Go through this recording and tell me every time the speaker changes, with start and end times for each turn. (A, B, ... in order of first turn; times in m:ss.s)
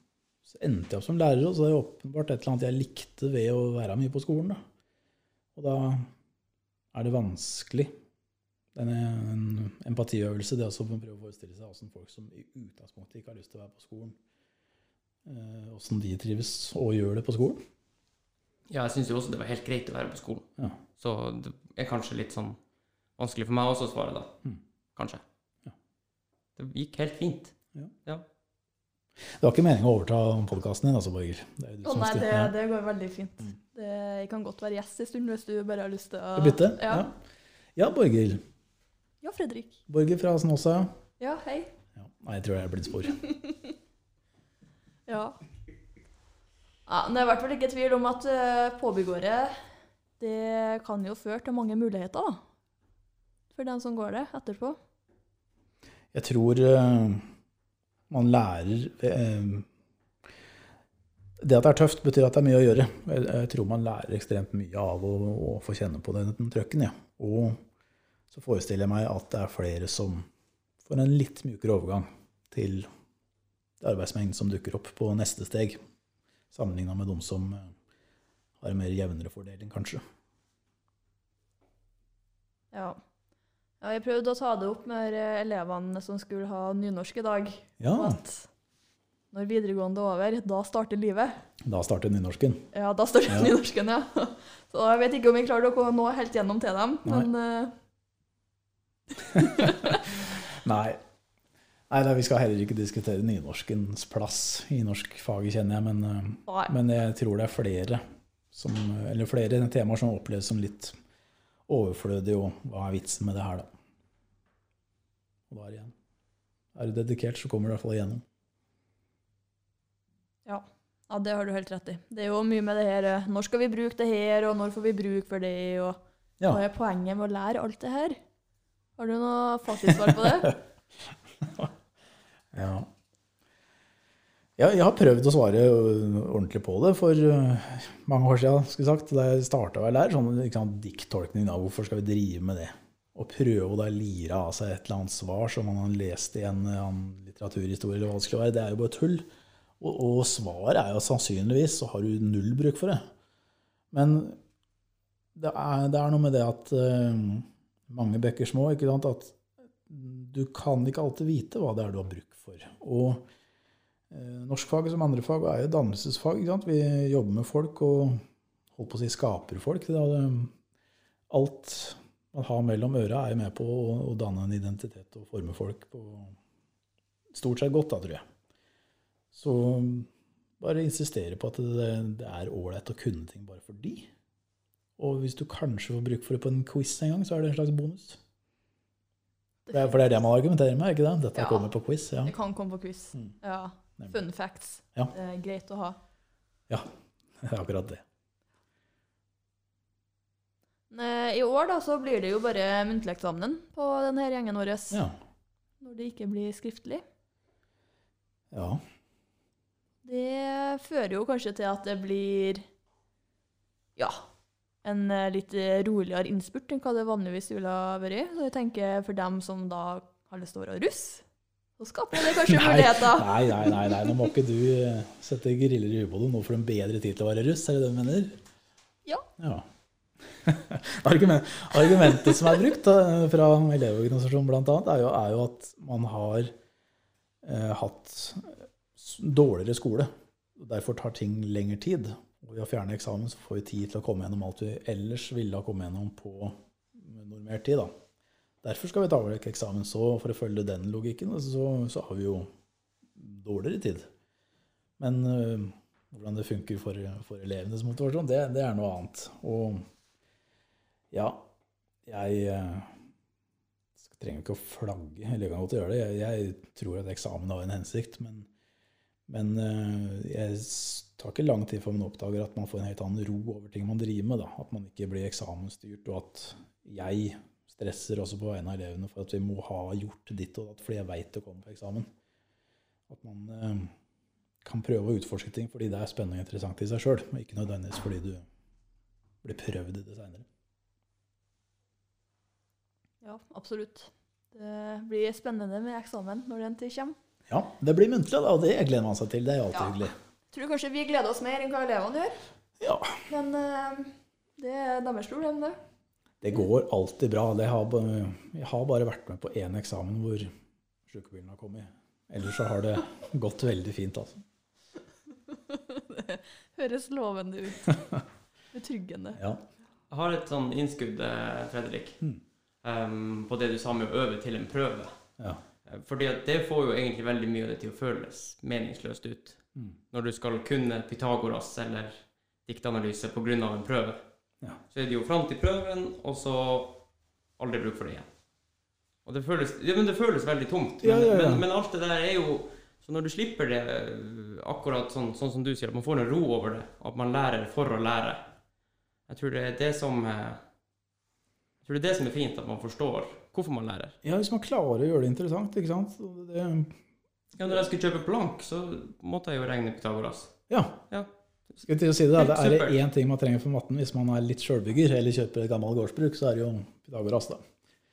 0:00.5-0:04.6 A
0:05.6-0:06.1 A
0:06.9-0:07.9 A
0:08.8-0:14.2 A
0:15.3-0:17.6 A
0:18.7-0:22.6 B
0:23.2-0:24.4 B
0:25.0-0:25.2 B
0:26.6-0:27.5 B
0:29.4-0:32.5 A
0:31.8-0:37.0 C
0:36.4-0:37.2 A
0:37.8-0:38.4 A
0:39.2-0:39.8 C
0:39.9-0:40.9 A
0:41.2-0:41.7 C
0:42.0-0:43.2 A
0:43.2-0:43.7 C
0:45.1-0:45.4 C
0:46.9-0:49.6 C
0:50.2-0:52.4 C
0:53.5-0:54.8 C
0:56.1-0:57.3 A
0:58.1-0:59.7 A
1:01.4-1:07.6 A
1:08.3-1:10.3 A
1:10.8-1:12.9 A
1:13.8-1:15.8 A
1:16.5-1:17.7 A
1:18.6-1:20.0 A
1:22.7-1:23.0 C
1:23.8-1:28.5 C
1:27.8-1:28.2 A
1:29.3-1:31.4 C
1:31.6-1:32.7 A
1:32.7-1:37.7 C
1:33.3-1:33.6 A
1:39.3-1:41.0 A
1:39.3-1:40.0 C
1:41.9-1:51.0 A
1:46.5-1:46.7 C
1:51.7-1:53.7 A
1:55.5-1:55.9 A
1:56.8-1:58.2 A
2:00.4-2:08.2 C
2:09.0-2:10.5 C
2:09.8-2:10.6 A
2:11.4-2:11.7 A
2:12.5-2:12.9 A
2:14.6-2:29.3 A
2:29.8-2:33.1 A
2:33.9-2:34.4 A
2:35.4-2:43.3 A
2:44.1-2:48.2 A
2:48.8-2:50.5 A
2:51.3-2:56.4 A
2:57.3-2:58.2 A
2:59.3-3:00.1 A
3:00.6-3:04.1 A
3:05.0-3:08.2 A
3:09.7-3:09.9 C
3:09.7-3:12.3 A
3:11.4-3:11.7 C
3:12.2-3:16.0 C
3:17.4-3:18.0 A
3:20.9-3:25.0 C
3:25.8-3:27.0 C
3:28.5-3:28.8 A
3:30.0-3:32.7 C
3:34.0-3:34.2 C
3:34.8-3:41.2 C
3:41.8-3:44.3 C
3:42.1-3:48.4 A
3:49.4-3:49.7 A
3:50.4-3:56.5 A
3:57.4-4:07.9 A
4:08.6-4:12.5 A
4:13.2-4:14.1 A
4:15.0-4:19.8 A
4:21.1-4:21.5 A
4:22.1-4:23.0 A
4:24.0-4:28.5 A
4:29.3-4:42.1 A
4:43.1-4:43.9 A
4:44.6-4:48.4 A
4:49.4-4:50.5 A
4:53.2-4:57.2 C
4:57.5-5:00.2 A
4:59.7-5:02.4 C
5:02.8-5:03.3 A
5:03.3-5:05.8 C
5:06.4-5:10.5 A
5:11.1-5:14.4 A
5:15.3-5:18.1 C
5:17.8-5:18.2 A
5:18.7-5:19.4 C
5:19.4-5:19.6 A
5:20.1-5:22.2 B
5:22.8-5:25.1 B
5:25.8-5:34.2 B
5:34.9-5:37.0 B
5:37.6-5:38.3 B
5:39.2-5:48.5 B
5:41.0-5:41.6 A
5:49.3-5:50.6 B
5:51.8-5:54.2 B
5:54.2-5:57.0 A
5:57.6-6:00.6 B
6:00.7-6:01.0 A
6:01.8-6:07.6 A
6:02.4-6:03.0 B